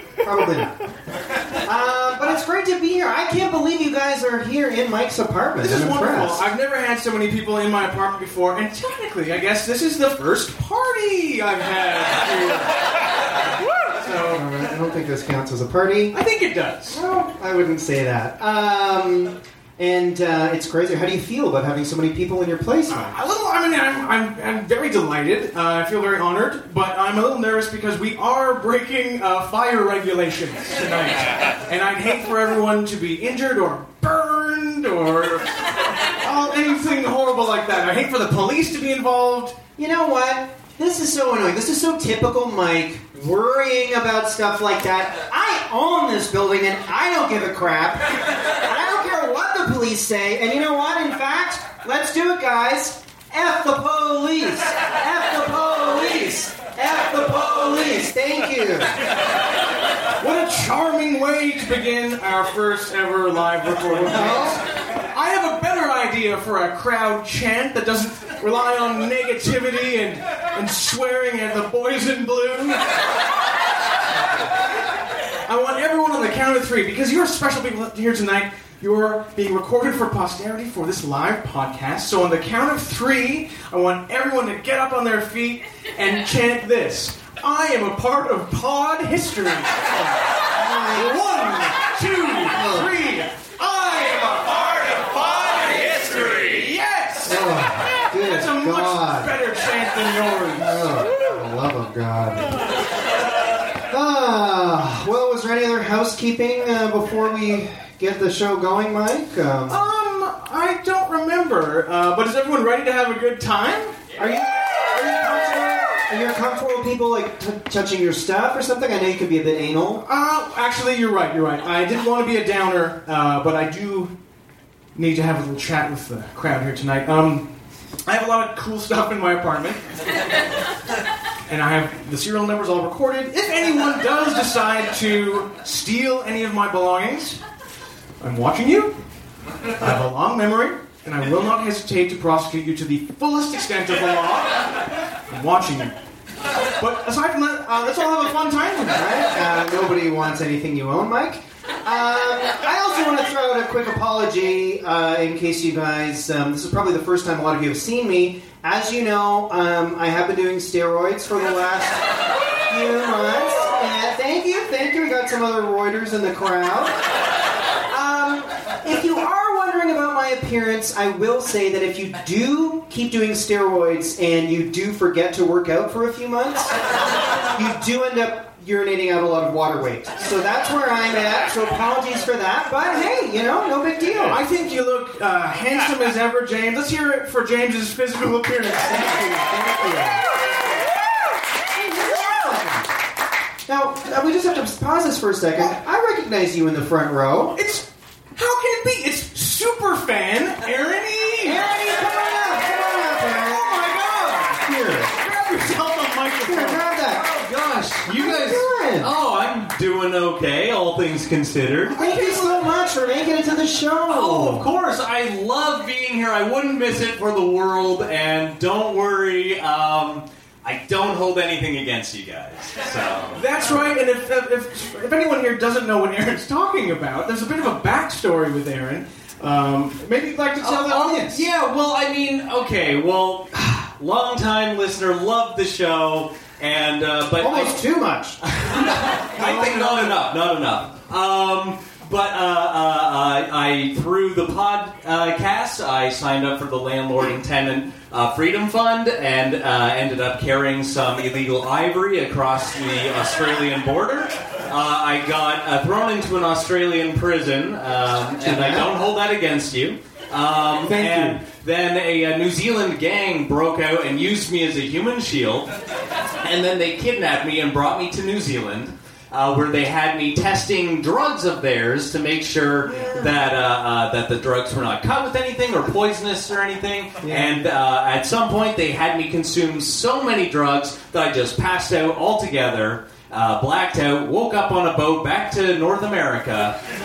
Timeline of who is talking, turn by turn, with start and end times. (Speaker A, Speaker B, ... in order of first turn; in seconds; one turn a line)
Speaker A: 0.2-0.8
Speaker A: 1.6-6.4
Speaker B: 5.6-12.8
Speaker B: 13.8-14.4
Speaker A: 14.3-16.1
Speaker B: 16.1-17.0
Speaker A: 16.9-23.2
Speaker B: 22.9-35.5
Speaker B: 36.2-39.6
Speaker A: 39.8-59.0
Speaker B: 60.2-72.8
Speaker A: 63.9-64.6
Speaker B: 75.5-90.2
Speaker A: 90.5-91.2
Speaker B: 90.9-94.9
Speaker A: 92.5-92.9
Speaker B: 95.9-101.1
Speaker A: 97.3-99.3
Speaker A: 100.6-102.7
Speaker A: 103.9-109.8
Speaker B: 109.7-114.0
Speaker A: 114.2-120.0
Speaker B: 120.0-124.1
Speaker B: 125.0-127.5
Speaker B: 128.1-129.8
Speaker B: 131.5-137.4
Speaker B: 138.2-139.0
Speaker B: 139.8-144.5
Speaker B: 145.3-146.0
Speaker B: 146.8-149.0
Speaker A: 148.9-162.1
Speaker A: 162.7-167.0
Speaker A: 167.9-176.7
Speaker A: 177.5-184.4
Speaker B: 184.2-189.5
Speaker A: 188.9-190.2
Speaker A: 191.7-192.9
Speaker A: 193.7-197.6
Speaker B: 197.5-201.7
Speaker A: 201.4-205.2
Speaker B: 203.5-204.6
Speaker B: 205.2-208.0
Speaker A: 206.4-207.2
Speaker C: 207.9-212.0
Speaker A: 208.1-209.1
Speaker A: 211.9-214.7
Speaker C: 214.1-223.4
Speaker B: 223.4-231.4
Speaker C: 230.6-237.8
Speaker A: 237.4-238.4
Speaker C: 238.4-265.7
Speaker A: 258.4-258.9
Speaker B: 260.8-261.4
Speaker C: 266.4-286.8
Speaker A: 272.9-273.4
Speaker A: 277.2-277.7